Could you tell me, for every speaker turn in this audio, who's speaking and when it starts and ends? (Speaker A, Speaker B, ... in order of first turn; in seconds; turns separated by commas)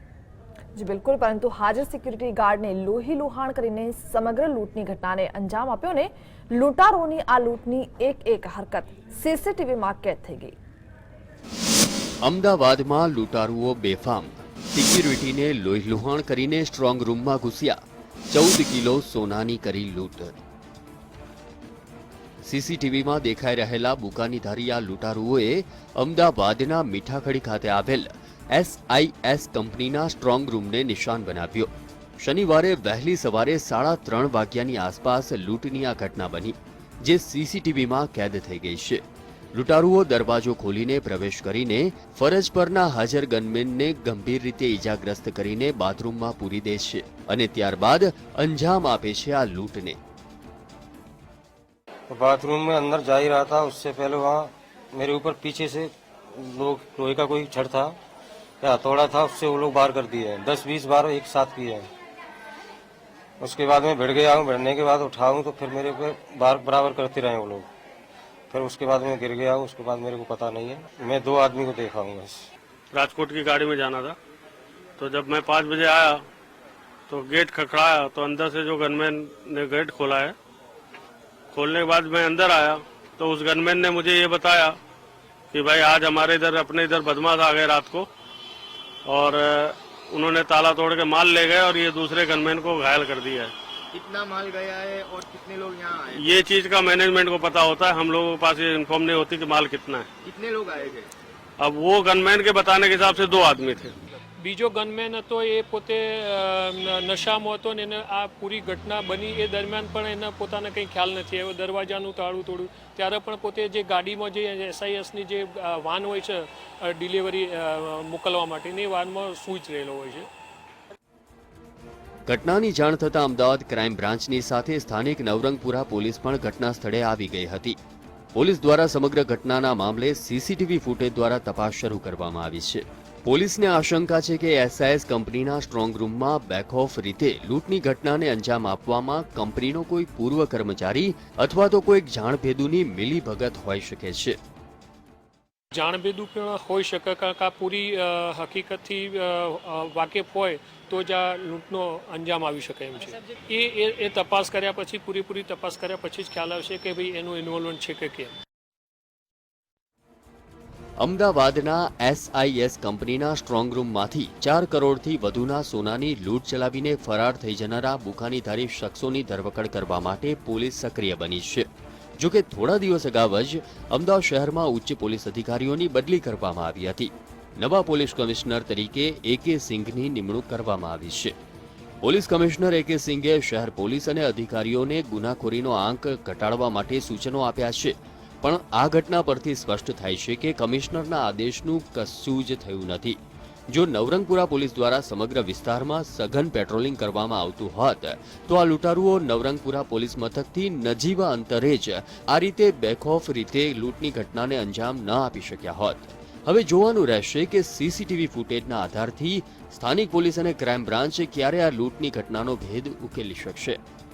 Speaker A: 0.7-10.5, Speaker B: 12.2-17.8, Speaker B: 18.3-20.4, Speaker B: 22.4-39.0, Speaker B: 39.5-50.0, Speaker C: 52.1-57.9, Speaker C: 58.6-61.9, Speaker C: 63.4-67.7, Speaker C: 68.5-72.5, Speaker D: 72.9-74.2, Speaker D: 75.0-76.2, Speaker D: 77.1-80.3, Speaker D: 81.5-84.8, Speaker D: 85.5-88.1, Speaker D: 89.0-93.5, Speaker E: 93.9-96.2, Speaker D: 96.1-100.1, Speaker E: 100.2-101.1, Speaker D: 101.6-103.9, Speaker F: 104.4-120.3, Speaker B: 122.2-127.8, Speaker B: 128.3-144.4, Speaker F: 145.7-158.3, Speaker B: 161.0-171.7, Speaker B: 172.2-181.3, Speaker B: 182.0-193.2, Speaker B: 193.7-213.8